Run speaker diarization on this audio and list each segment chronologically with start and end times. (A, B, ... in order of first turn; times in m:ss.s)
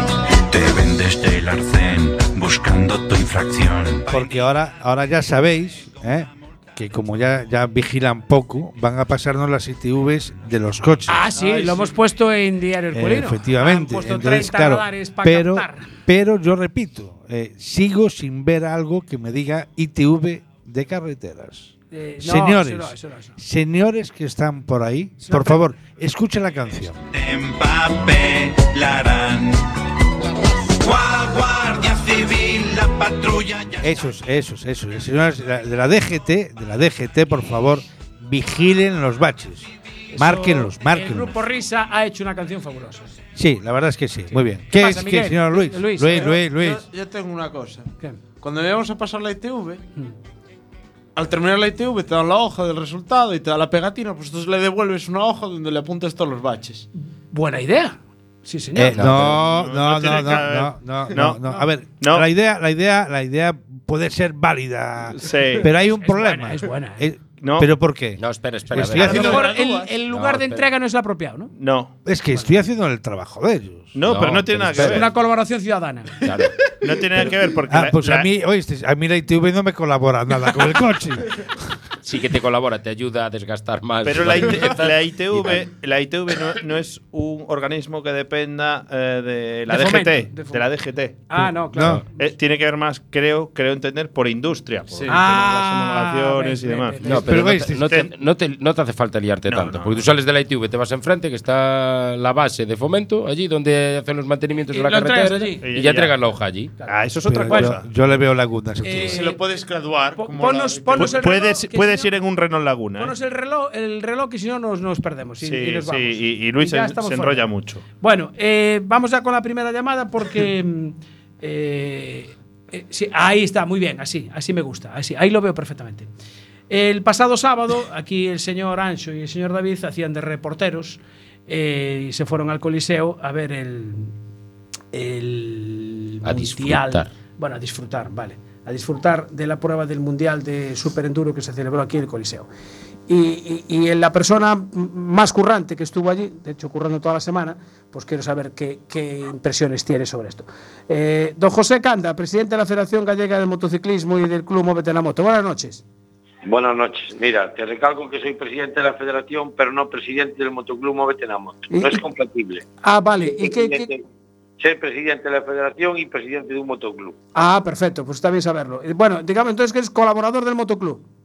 0:00.5-0:04.4 A
0:04.1-0:11.3 B
0:11.1-0:15.9 C
0:11.3-0:11.9 D
0:12.9-0:27.0 B
0:21.9-0:23.4 C
0:25.2-0:25.6 C
0:27.1-0:29.7 A
0:30.8-0:33.9 A
0:33.8-0:41.3 B
0:40.1-0:43.2 C
0:43.3-0:46.8 B
0:44.3-0:46.4 C
0:46.1-0:47.9 D
0:48.4-0:49.8 D
0:51.1-0:56.8 D
0:57.3-0:59.0 C
0:58.7-1:09.3 B
0:58.9-0:59.4 E
0:59.0-1:01.4 F
1:02.0-1:02.2 F
1:05.2-1:05.7 F
1:06.0-1:07.0 C
1:07.4-1:07.7 F
1:08.2-1:09.5 E
1:09.0-1:11.5 C
1:09.0-1:09.7 F
1:09.3-1:09.9 D
1:10.1-1:10.7 E
1:11.6-1:11.9 F
1:12.0-1:15.0 B
1:13.9-1:15.1 F
1:14.1-1:15.0 E
1:14.9-1:16.1 C
1:16.2-1:16.5 E
1:16.8-1:18.3 F
1:17.7-1:21.5 B
1:22.0-1:24.8 E
1:24.0-1:31.3 F
1:24.5-1:25.0 D
1:29.7-1:32.0 C
1:31.4-1:32.0 B
1:32.2-1:38.1 F
1:34.9-1:35.3 D
1:35.1-1:37.2 C
1:37.0-1:46.7 E
1:37.1-1:38.0 B
1:39.5-1:40.0 F
1:44.7-1:45.6 C
1:45.6-1:46.2 F
1:46.8-1:47.8 C
1:46.9-1:47.8 F
1:47.2-1:49.2 B
1:48.8-1:49.4 C
1:49.0-1:51.4 D
1:50.1-1:52.1 C
1:51.0-1:53.1 F
1:53.0-1:57.5 C
1:55.4-1:57.8 F
1:58.0-2:06.1 C
2:06.7-2:14.1 C
2:14.9-2:22.5 C
2:16.2-2:17.1 E
2:23.1-2:35.8 C
2:36.4-2:42.6 G
2:41.7-2:42.0 C
2:42.8-2:43.9 C
2:43.2-2:44.0 G
2:44.6-2:47.2 G
2:47.3-2:51.0 C